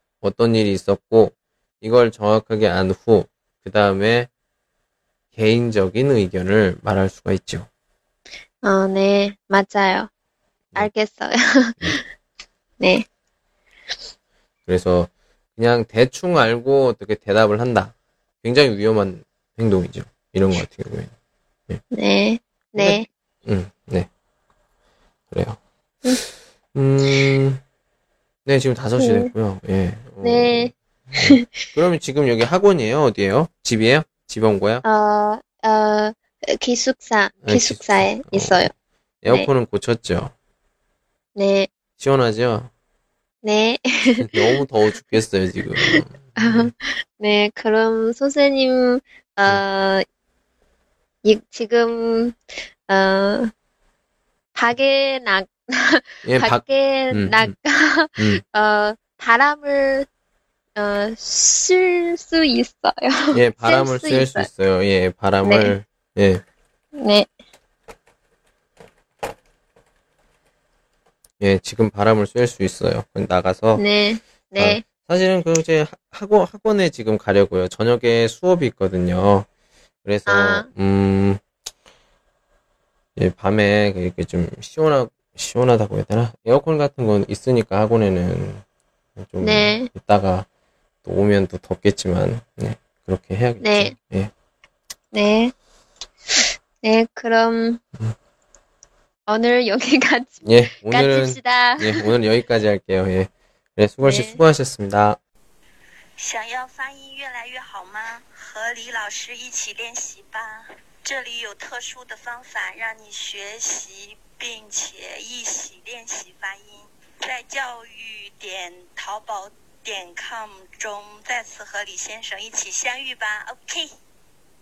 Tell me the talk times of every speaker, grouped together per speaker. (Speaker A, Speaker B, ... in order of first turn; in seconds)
Speaker A: 0.2-4.3, 5.3-7.7, 14.7-21.1, 22.8-24.1, 25.3-25.6, 26.7-27.6, 28.4-34.8, 37.4-38.7, 39.2-40.3, 42.0-42.7, 44.2-46.7, 56.2-57.5, 58.2-58.4, 63.3-66.4, 71.4-73.8, 74.6-79.5, 80.0-81.4, 83.2-88.6, 89.2-90.5, 91.0-94.3, 100.4-105.2
Speaker B: 8.6-10.1, 10.8-12.0, 12.8-13.0, 21.9-23.1, 29.0-29.3, 30.2-30.7, 31.2-31.6, 34.8-38.7, 41.4-41.7, 43.4-44.6, 45.8-50.0, 51.2-53.5, 54.5-60.1, 60.8-64.5, 65.4-65.7, 67.0-67.3, 73.8-74.8, 80.3-80.7, 89.4-89.9, 93.6-93.9, 95.1-95.5, 96.8-97.8, 99.3-102.1, 104.0-104.4
Speaker C: 106.2-123.9